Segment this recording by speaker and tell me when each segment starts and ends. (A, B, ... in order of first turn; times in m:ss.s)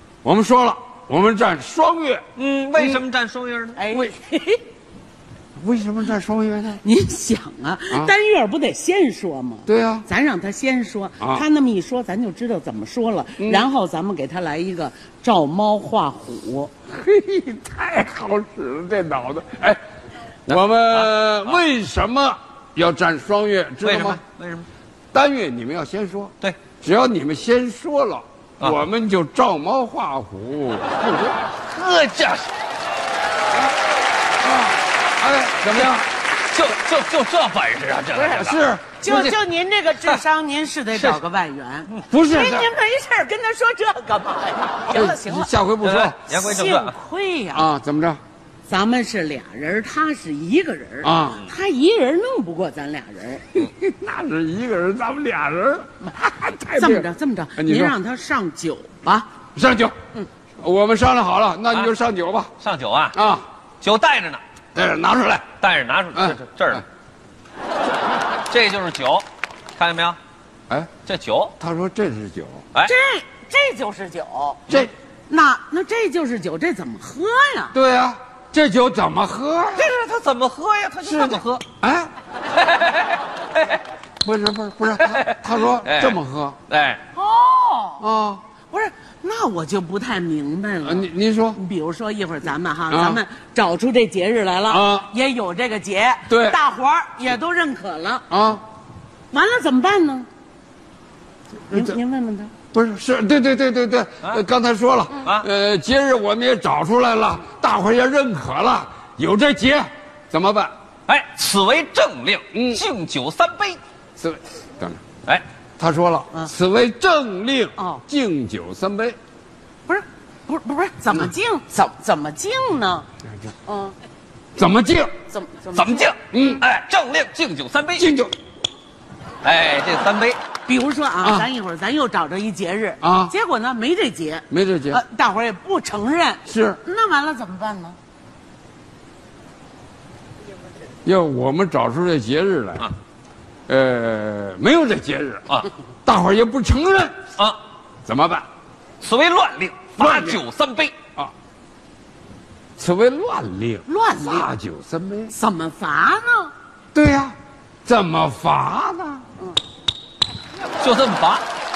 0:00.2-0:02.2 A
0:02.4-0:03.8 B
0:02.8-0:03.0 A
0:03.8-0:04.6 C
0:05.6-0:06.8 A
0:06.8-0:16.7 C
0:09.6-0:10.0 A
0:11.2-0:11.4 A
0:13.4-0:13.7 A
0:16.9-0:19.8 A
0:20.5-0:24.2 A
0:20.9-0:21.6 B
0:23.8-0:24.7 B
0:25.1-0:31.4 A
0:31.3-0:32.5 B
0:34.4-0:36.1 A
0:35.7-0:36.0 B
0:36.5-0:39.3 B
0:38.2-0:45.5 C
0:38.3-0:39.1 A
0:40.9-0:41.2 B
0:42.1-0:42.7 A
0:44.8-0:46.3 A
0:45.8-0:47.0 B
0:46.3-0:47.7 C
0:47.5-0:48.2 A
0:48.7-0:53.4 C
0:51.0-0:51.5 A
0:53.5-0:58.0 A
0:56.7-0:59.3 C
0:59.5-1:00.0 A
1:00.6-1:02.5 A
1:02.6-1:03.2 B
1:03.1-1:03.4 A
1:03.8-1:04.4 B
1:04.7-1:05.5 A
1:05.6-1:06.8 B
1:06.1-1:06.8 A
1:08.5-1:10.2 B
1:11.0-1:11.5 B
1:11.6-1:12.6 A
1:12.8-1:14.6 C
1:15.3-1:17.7 C
1:17.7-1:19.9 A
1:19.7-1:21.6 B
1:21.0-1:22.1 A
1:22.6-1:23.8 B
1:24.2-1:26.6 A
1:25.0-1:26.2 B
1:26.7-1:27.0 B
1:27.1-1:28.0 C
1:28.0-1:28.4 A
1:28.7-1:38.2 C
1:30.8-1:31.6 A
1:32.9-1:33.2 A
1:34.7-1:35.1 A
1:36.3-1:36.6 A
1:38.3-1:38.6 A
1:39.3-1:40.3 C
1:41.7-1:42.0 A
1:41.7-1:42.5 C
1:42.7-1:50.7 A
1:45.2-1:45.5 B
1:51.1-1:53.8 B
1:52.5-1:52.8 A
1:54.2-1:55.0 A
1:55.8-1:59.2 A
1:57.8-1:58.0 C
1:59.9-2:03.1 C
2:03.3-2:03.5 A
2:03.6-2:03.9 C
2:04.5-2:05.1 A
2:05.3-2:06.1 C
2:05.7-2:08.1 B
2:06.3-2:06.6 A
2:08.0-2:08.3 A
2:09.4-2:10.4 B
2:10.7-2:18.0 C
2:11.2-2:11.5 A
2:13.0-2:13.3 A
2:14.5-2:15.0 A
2:16.4-2:16.8 A
2:21.0-2:22.9 A
2:23.7-2:25.5 A
2:26.0-2:27.2 A
2:28.0-2:28.5 A
2:29.0-2:30.9 B
2:30.0-2:30.4 A
2:32.8-2:35.3 A
2:33.9-2:34.5 C
2:35.3-2:36.5 C
2:36.9-2:39.2 A
2:40.8-2:41.4 B